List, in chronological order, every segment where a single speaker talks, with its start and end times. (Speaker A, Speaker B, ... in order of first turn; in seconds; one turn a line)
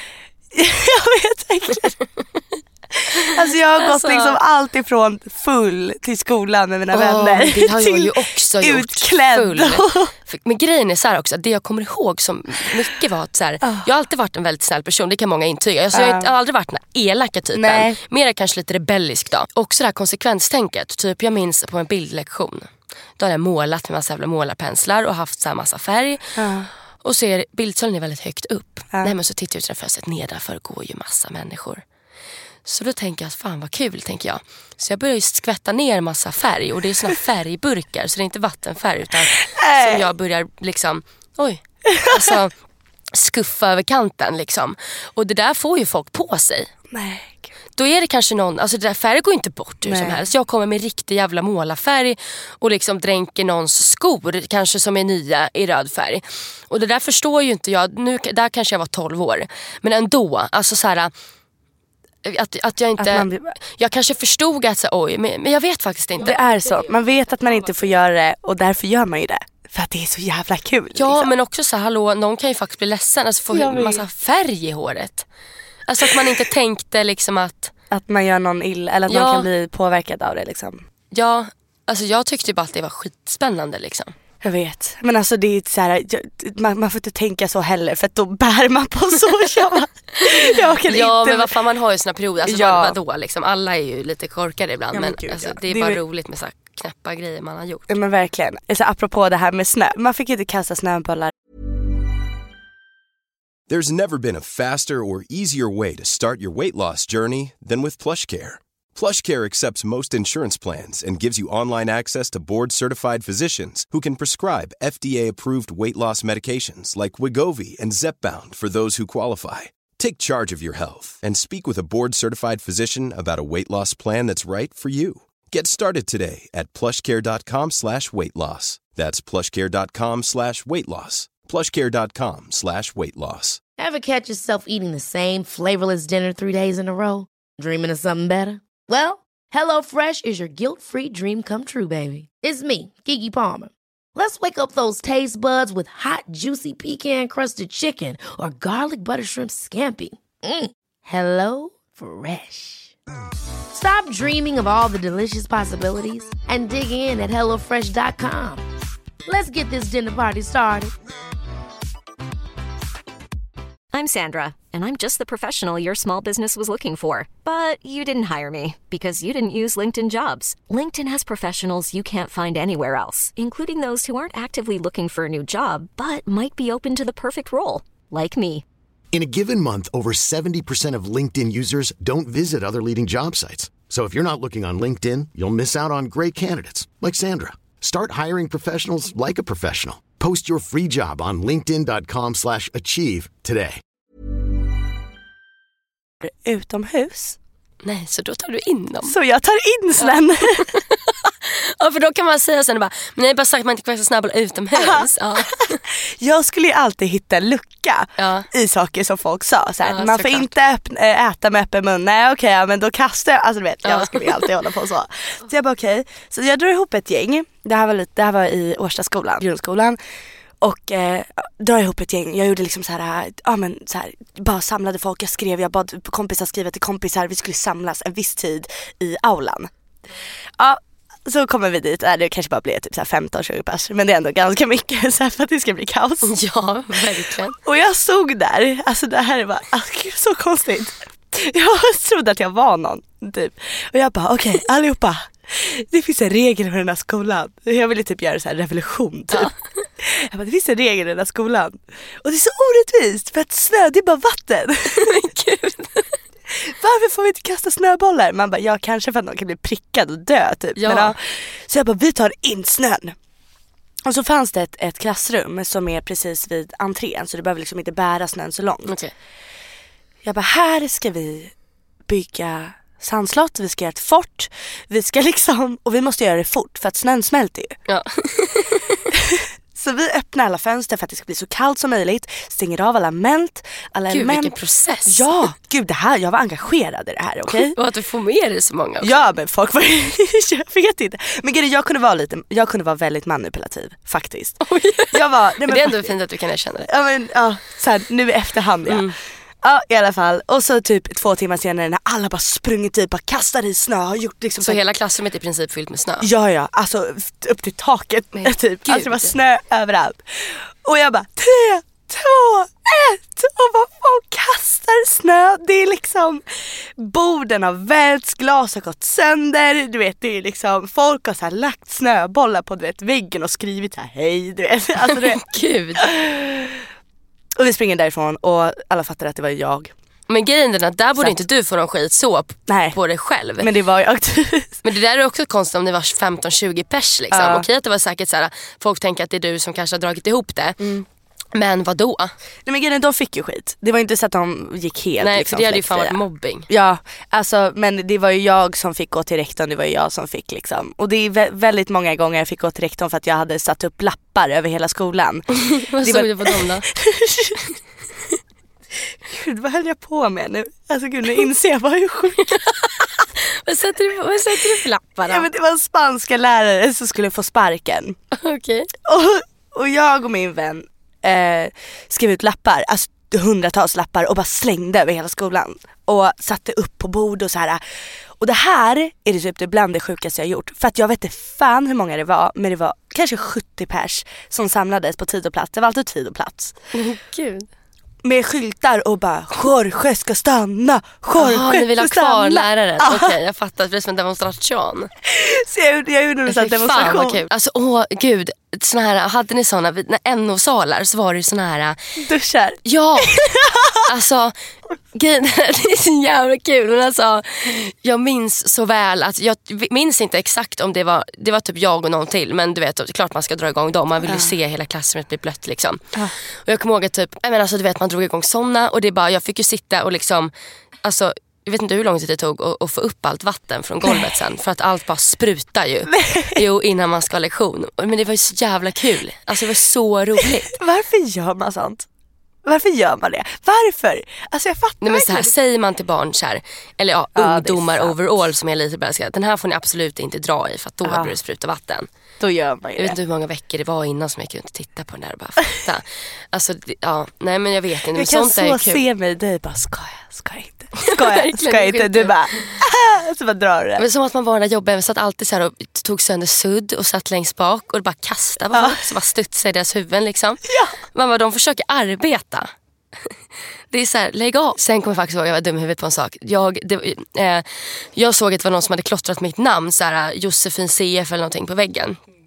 Speaker A: 0.5-2.0
Speaker A: 2.9-10.1
Speaker B: 3.8-4.4
Speaker B: 6.9-26.4
Speaker A: 15.9-16.3
Speaker A: 17.5-18.0
Speaker A: 26.4-26.7
Speaker B: 27.0-31.8
Speaker B: 32.6-42.5
Speaker A: 39.5-40.1
Speaker A: 41.9-42.4
Speaker B: 43.1-46.7
Speaker A: 46.9-47.5
Speaker B: 47.8-61.1
Speaker A: 49.8-50.2
Speaker B: 62.2-66.4
Speaker A: 63.0-63.5
Speaker A: 66.2-71.3
Speaker B: 71.0-75.3
Speaker A: 73.5-74.0
Speaker B: 75.9-77.7
Speaker A: 77.9-80.8
Speaker B: 79.1-79.5
Speaker B: 81.1-84.1
Speaker A: 84.4-91.5
Speaker B: 90.2-98.0
Speaker A: 92.4-93.0
Speaker A: 94.9-96.0
Speaker A: 97.9-101.3
Speaker C: 103.7-133.6
Speaker D: 133.8-152.9
Speaker D: 153.7-158.6
Speaker D: 159.3-160.9
Speaker E: 163.9-178.7
Speaker F: 179.1-193.8
Speaker A: 196.2-197.4
Speaker B: 197.8-199.2
Speaker A: 199.0-200.7
Speaker B: 200.0-205.8
Speaker A: 204.8-220.0
Speaker B: 208.2-208.5
Speaker B: 209.8-210.5
Speaker B: 213.8-214.5
Speaker A: 220.6-229.7
Speaker A: 230.6-236.3
Speaker B: 236.2-237.6
Speaker A: 237.6-255.3
Speaker B: 254.9-256.2
Speaker A: 256.5-263.2
Speaker B: 260.8-261.1
Speaker A: 264.1-269.0
Speaker B: 268.9-269.1
Speaker A: 270.2-271.5
Speaker A: 272.1-277.8
Speaker B: 277.9-279.0
Speaker A: 279.1-287.8
Speaker B: 284.1-285.4
Speaker B: 287.5-289.3
Speaker A: 289.0-294.6
Speaker B: 294.6-296.9
Speaker A: 295.1-296.1
Speaker A: 296.9-299.1
Speaker B: 298.9-299.1
Speaker A: 299.6-304.8
Speaker B: 304.6-306.3
Speaker A: 306.2-325.4
Speaker B: 308.3-309.4
Speaker B: 325.0-326.0
Speaker A: 326.0-326.8
Speaker A: 327.6-329.9
Speaker B: 330.3-333.7
Speaker A: 332.7-333.0
Speaker A: 333.6-334.8
Speaker B: 334.8-340.9
Speaker A: 337.3-337.7
Speaker A: 340.8-341.1
Speaker B: 341.5-342.3
Speaker A: 342.7-357.6
Speaker B: 345.2-346.7
Speaker B: 355.6-356.9
Speaker A: 359.2-363.1
Speaker B: 362.4-365.5
Speaker A: 364.8-368.2
Speaker B: 368.3-368.9
Speaker A: 369.1-377.8
Speaker A: 378.4-386.8
Speaker B: 386.9-387.7
Speaker A: 388.2-393.4
Speaker B: 391.4-395.1
Speaker A: 395.3-397.4
Speaker B: 396.5-402.2
Speaker A: 402.2-404.1
Speaker B: 402.9-404.5
Speaker B: 405.1-420.5
Speaker A: 414.2-414.5
Speaker B: 421.0-430.8
Speaker A: 426.1-426.6
Speaker A: 430.7-432.1
Speaker A: 432.6-435.5
Speaker B: 435.0-442.1
Speaker A: 437.3-438.2
Speaker A: 441.0-441.4
Speaker A: 442.4-443.2
Speaker B: 443.0-449.0
Speaker A: 448.1-454.1
Speaker B: 451.0-452.7
Speaker B: 454.0-462.7
Speaker A: 458.7-459.1
Speaker A: 460.7-461.0
Speaker B: 463.9-472.2